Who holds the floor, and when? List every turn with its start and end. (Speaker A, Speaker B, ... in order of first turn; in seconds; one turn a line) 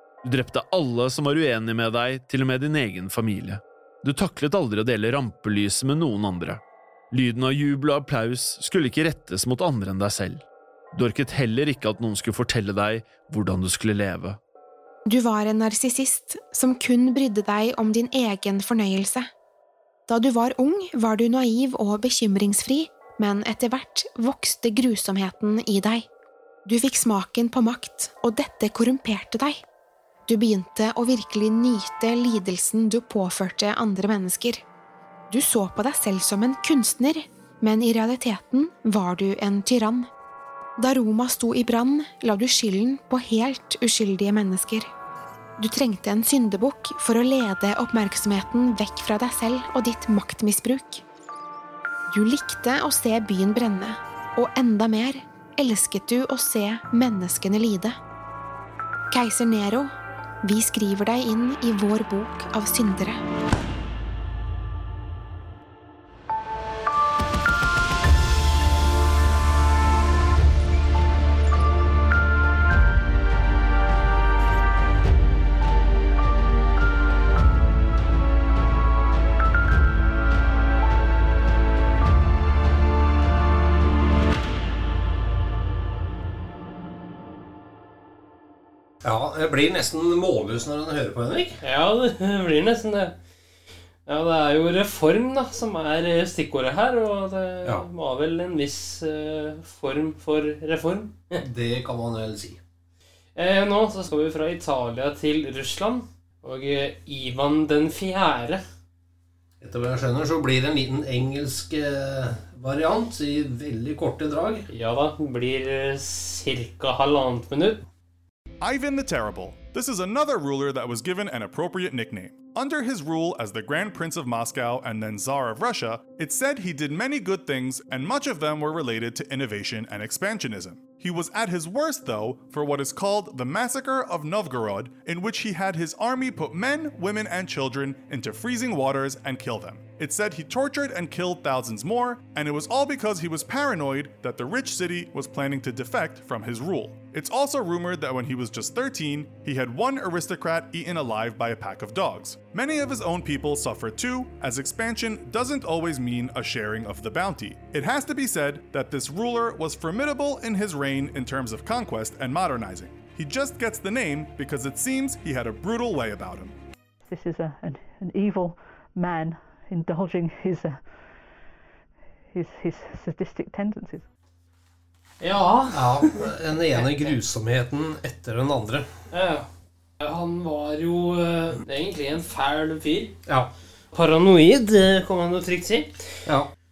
Speaker A: 0.2-14.4
Speaker B: 15.1-19.3
Speaker B: 20.1-26.1
Speaker B: 26.7-29.6
Speaker B: 30.3-34.6
Speaker B: 35.3-40.1
Speaker B: 40.8-44.9
Speaker B: 45.6-51.0
Speaker B: 52.1-58.0
Speaker B: 59.1-63.2
Speaker C: 89.0-91.6
Speaker D: 91.6-93.1
Speaker D: 94.1-101.4
Speaker C: 101.4-102.6
Speaker D: 103.4-108.6
Speaker C: 109.6-114.7
Speaker D: 114.7-117.8
Speaker E: 118.6-166.5
Speaker F: 167.1-170.8
Speaker F: 172.3-174.1
Speaker D: 175.2-176.1
Speaker C: 175.7-178.9
Speaker D: 179.1-179.5
Speaker D: 180.0-183.2
Speaker D: 183.9-186.0